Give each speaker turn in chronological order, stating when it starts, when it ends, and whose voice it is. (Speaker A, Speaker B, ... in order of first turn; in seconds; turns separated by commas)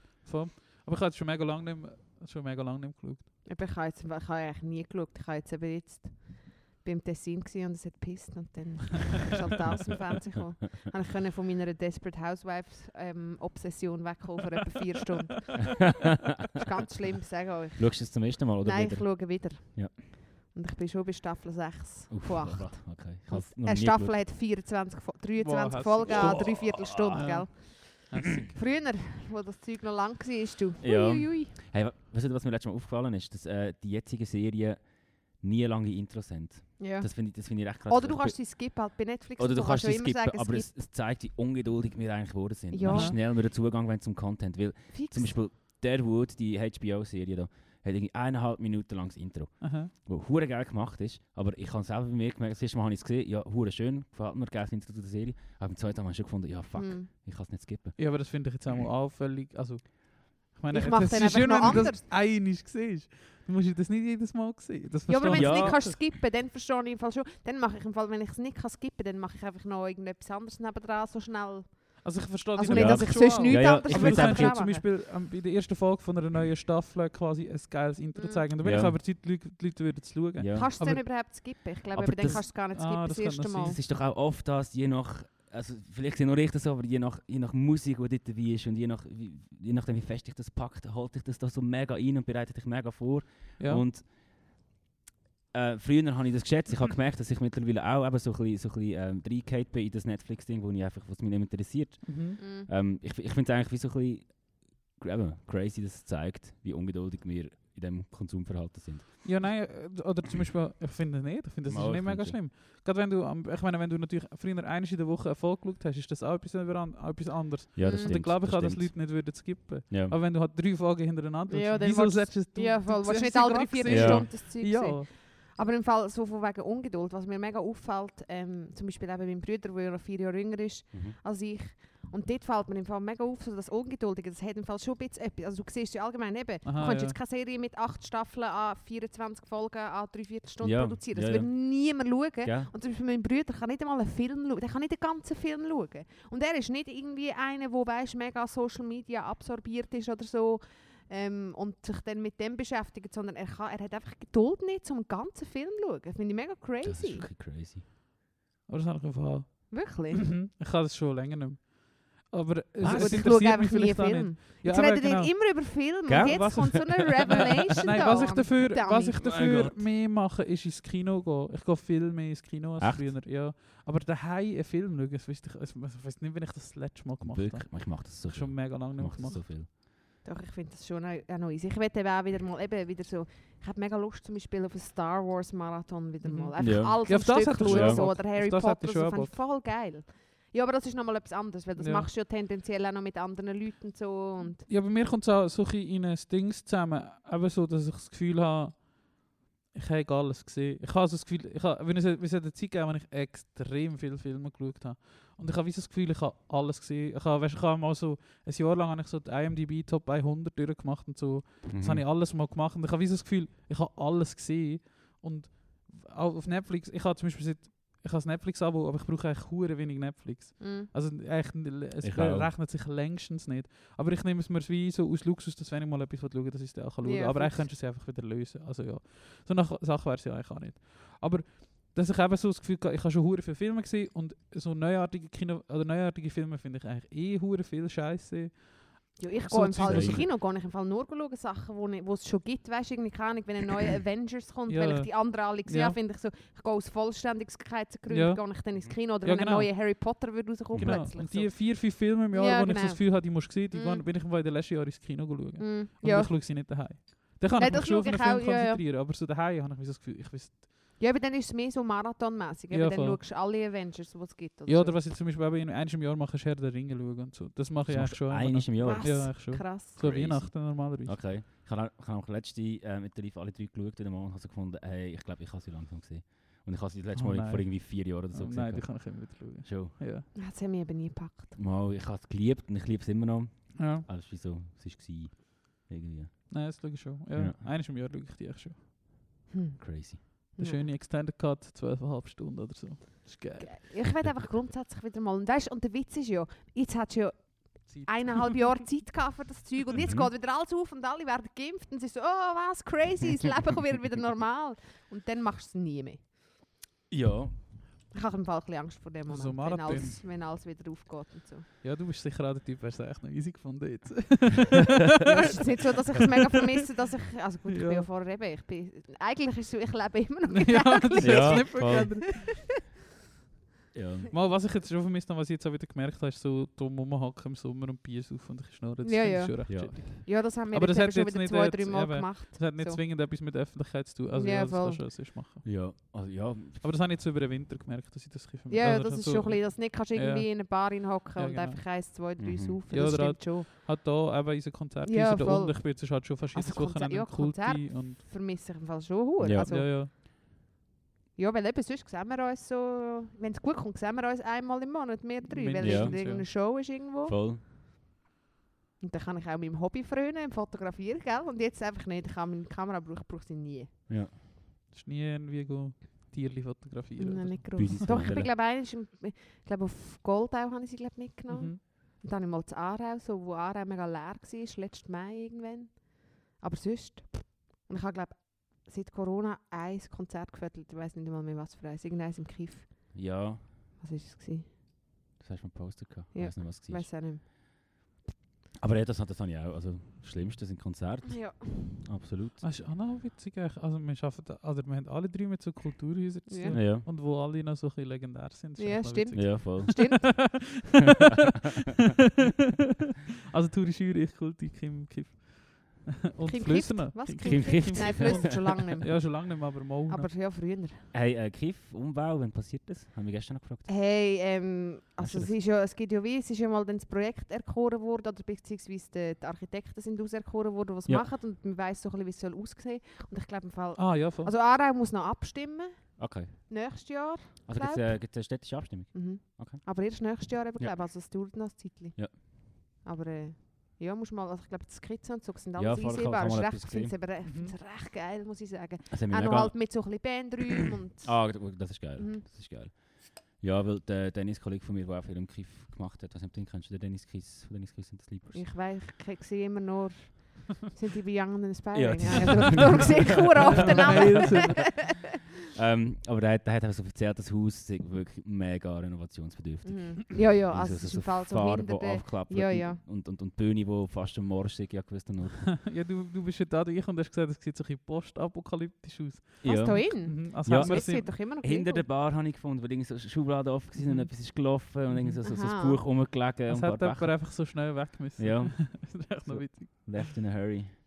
Speaker A: 0.2-3.3, Speaker B: 3.5-16.0, Speaker B: 16.5-31.6, Speaker C: 17.8-19.9, Speaker C: 22.1-24.2, Speaker A: 25.4-28.6, Speaker C: 26.1-26.5, Speaker C: 30.8-58.0, Speaker B: 36.8-40.7, Speaker B: 42.7-43.1, Speaker A: 42.9-43.2, Speaker B: 44.9-45.4, Speaker A: 49.6-49.9, Speaker B: 56.8-57.1, Speaker A: 58.0-66.0, Speaker B: 60.7-62.0, Speaker B: 65.1-74.8, Speaker C: 65.3-65.9, Speaker A: 72.0-81.1, Speaker C: 72.7-74.6, Speaker B: 78.2-78.4, Speaker C: 78.6-79.0, Speaker C: 80.4-80.7, Speaker B: 80.5-83.8, Speaker C: 81.9-82.5, Speaker A: 82.2-83.8, Speaker C: 83.6-94.6, Speaker A: 93.6-93.8, Speaker C: 95.5-109.5, Speaker A: 102.1-102.4, Speaker B: 102.4-102.7, Speaker A: 109.2-125.1, Speaker C: 111.7-112.4, Speaker C: 117.8-119.3, Speaker B: 117.8-118.2, Speaker C: 119.9-120.2, Speaker B: 121.5-157.3, Speaker C: 123.9-124.3, Speaker C: 130.9-131.2, Speaker A: 136.7-137.2, Speaker C: 140.6-142.7, Speaker C: 156.8-157.8, Speaker A: 158.7-179.4, Speaker B: 159.7-160.4, Speaker C: 162.8-163.3, Speaker B: 162.8-169.4, Speaker C: 166.1-167.6, Speaker C: 169.2-169.9, Speaker C: 172.8-173.1, Speaker C: 177.2-179.7, Speaker B: 180.2-194.7, Speaker A: 186.2-189.4, Speaker C: 186.6-188.1, Speaker A: 191.8-192.1, Speaker A: 194.6-240.2, Speaker C: 211.7-212.1, Speaker B: 220.6-220.9, Speaker C: 222.0-222.5, Speaker B: 227.0-227.7, Speaker B: 239.2-254.1, Speaker C: 239.8-240.2, Speaker A: 244.7-246.0, Speaker A: 248.1-250.2, Speaker C: 250.7-251.1, Speaker A: 250.8-260.8, Speaker B: 255.6-256.7, Speaker B: 257.6-258.8, Speaker B: 261.0-265.0, Speaker A: 262.7-263.2, Speaker A: 264.7-271.2, Speaker C: 267.9-269.4, Speaker B: 268.8-270.0, Speaker C: 269.9-280.0, Speaker A: 277.1-280.3, Speaker B: 280.4-281.6, Speaker C: 281.6-287.7, Speaker A: 283.8-284.1, Speaker A: 286.5-288.8, Speaker B: 289.5-290.9, Speaker C: 289.8-290.2, Speaker A: 290.6-293.9, Speaker B: 293.6-306.2, Speaker A: 297.9-298.4, Speaker C: 300.0-300.3, Speaker C: 307.1-307.7, Speaker B: 308.1-311.7, Speaker A: 309.3-310.2, Speaker A: 311.8-316.3, Speaker B: 315.2-322.5, Speaker A: 317.7-318.1, Speaker A: 320.5-322.5, Speaker C: 321.2-322.3, Speaker C: 323.9-324.3, Speaker A: 324.3-335.8, Speaker B: 329.0-333.0, Speaker C: 329.7-330.0, Speaker B: 334.3-335.1, Speaker C: 335.6-336.8, Speaker A: 336.8-342.0, Speaker B: 338.7-343.7, Speaker C: 342.4-342.8, Speaker A: 342.9-348.2, Speaker B: 345.1-350.1, Speaker C: 349.4-349.7, Speaker A: 349.7-350.1, Speaker B: 351.4-357.4, Speaker A: 355.4-356.5, Speaker C: 355.8-356.2, Speaker C: 357.2-357.6, Speaker B: 359.0-363.9, Speaker C: 364.1-364.3, Speaker A: 364.9-368.1, Speaker B: 367.2-383.4, Speaker C: 367.8-368.5, Speaker A: 371.5-371.8, Speaker C: 383.1-383.7, Speaker B: 384.0-384.7, Speaker C: 385.4-387.1, Speaker B: 386.3-387.5, Speaker C: 388.8-392.6, Speaker B: 391.3-392.0, Speaker A: 392.6-401.4, Speaker B: 396.5-396.8, Speaker C: 396.7-397.1, Speaker B: 398.8-400.5, Speaker C: 399.4-400.4, Speaker A: 403.5-410.3, Speaker B: 406.4-411.1, Speaker C: 407.4-408.4, Speaker C: 411.1-413.9, Speaker B: 413.9-442.4, Speaker C: 415.2-415.6, Speaker A: 424.0-424.5, Speaker C: 426.2-427.0, Speaker C: 427.7-430.2, Speaker C: 435.8-437.2, Speaker A: 437.4-437.7, Speaker C: 439.1-440.3, Speaker C: 441.2-448.7, Speaker B: 448.5-455.1, Speaker C: 451.9-455.2, Speaker A: 453.7-454.9, Speaker C: 455.7-465.8, Speaker B: 459.8-463.0, Speaker A: 465.8-471.3, Speaker C: 469.6-477.8, Speaker B: 469.6-472.1, Speaker A: 474.0-475.4, Speaker B: 475.4-476.0, Speaker A: 476.7-480.5, Speaker C: 478.4-481.0